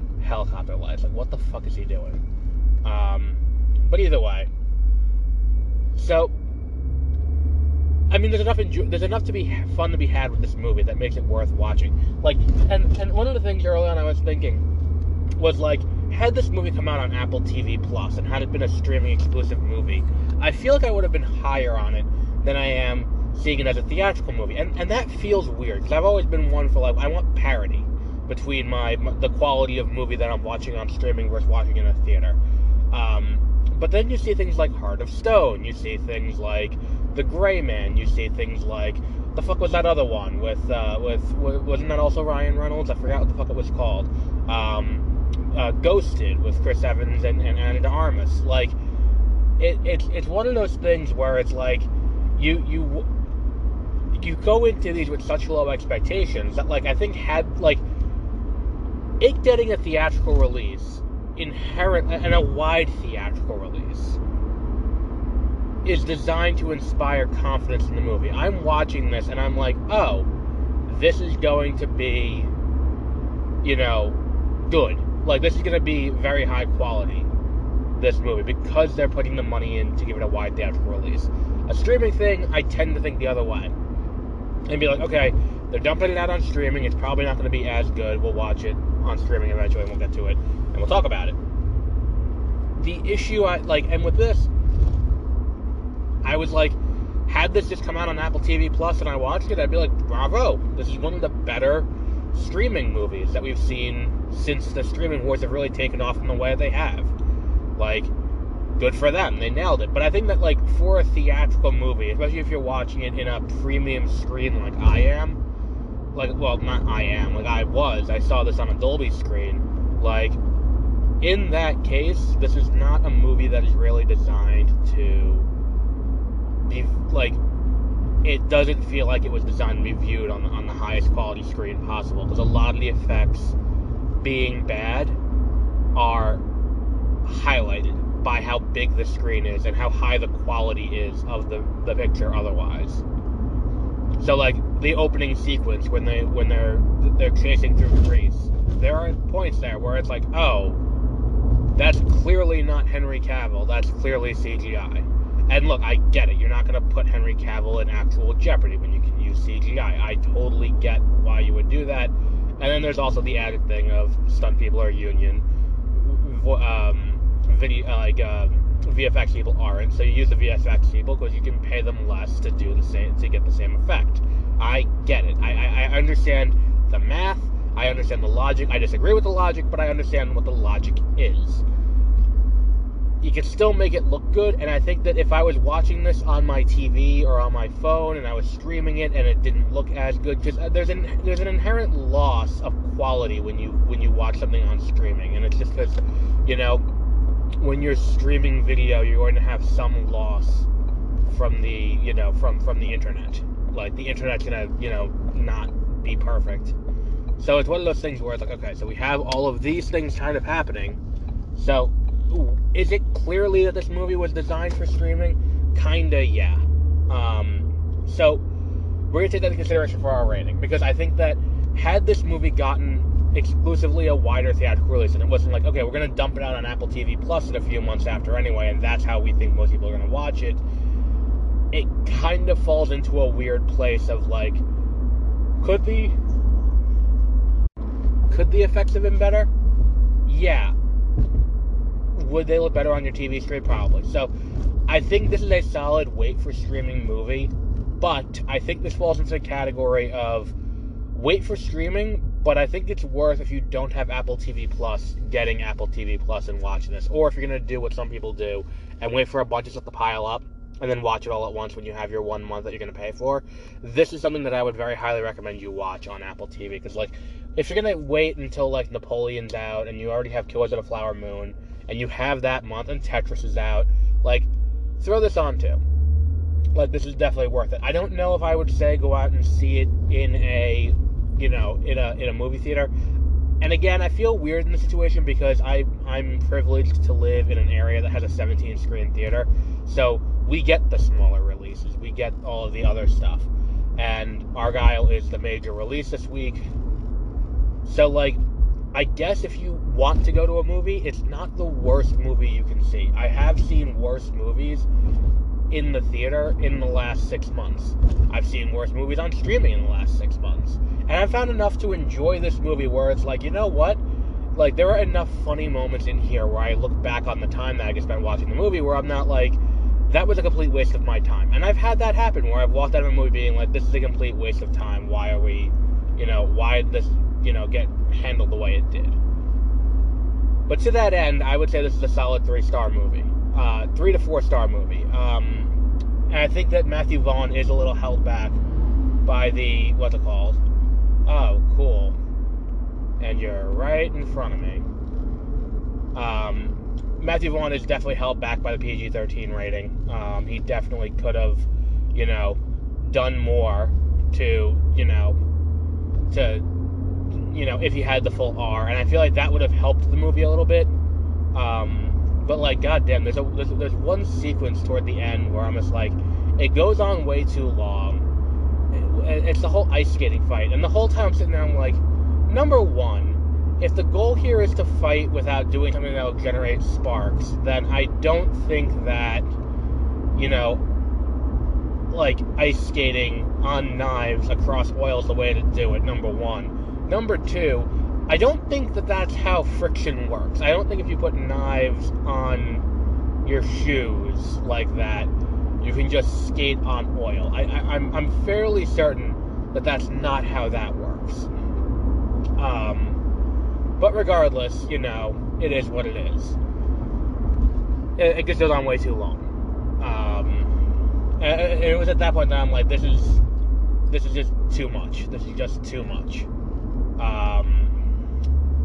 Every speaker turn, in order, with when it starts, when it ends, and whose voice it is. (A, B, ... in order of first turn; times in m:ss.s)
0:00.2-0:02.2 A
0:02.8-0:04.5 A
0:06.0-0:06.3 A
0:08.1-0:14.7 A
0:15.4-0:32.4 A
0:32.9-0:48.8 A
0:49.6-0:53.1 A
0:54.1-0:57.8 A
0:59.2-1:04.2 A
1:05.8-1:10.3 A
1:10.9-1:12.5 A
1:13.6-1:17.3 A
1:18.0-1:23.8 A
1:24.7-1:31.4 A
1:32.8-1:34.5 A
1:36.2-1:47.1 A
1:47.8-1:48.1 A
1:48.8-1:55.4 A
1:56.1-2:00.4 A
2:01.2-2:05.5 A
2:06.7-2:07.4 A
2:08.2-2:13.6 A
2:14.2-2:15.2 A
2:15.9-2:16.4 A
2:17.2-2:23.0 A
2:24.2-2:30.8 A
2:31.8-3:01.6 A
3:03.2-3:16.8 A
3:17.6-3:20.7 A
3:21.2-3:26.8 A
3:27.4-3:31.0 A
3:31.5-3:38.4 A
3:39.1-3:50.6 A
3:51.7-3:54.6 A
3:55.6-3:56.2 A
3:58.3-3:59.5 A
4:00.3-4:00.7 A
4:02.1-4:04.3 A
4:04.9-4:10.5 A
4:11.1-4:34.5 A
4:35.0-4:35.8 A
4:36.7-4:42.9 A
4:43.6-4:56.7 A
4:57.8-4:58.4 A
4:58.9-5:04.9 A
5:05.7-5:14.0 A
5:14.6-5:29.2 A
5:30.7-5:35.7 A
5:36.3-5:38.6 A
5:39.2-5:40.6 A
5:41.3-5:42.2 A
5:43.2-5:44.9 A
5:46.1-5:55.4 A
5:56.3-5:56.7 A
5:57.4-6:00.9 A
6:01.5-6:08.3 A
6:08.9-6:19.5 A
6:20.4-6:20.8 A
6:22.1-6:32.8 A
6:33.4-6:41.5 A
6:42.6-6:43.2 A
6:44.0-6:46.6 A
6:48.2-6:50.7 A
6:51.4-6:53.4 A
6:54.1-6:56.5 A
6:57.2-6:57.9 A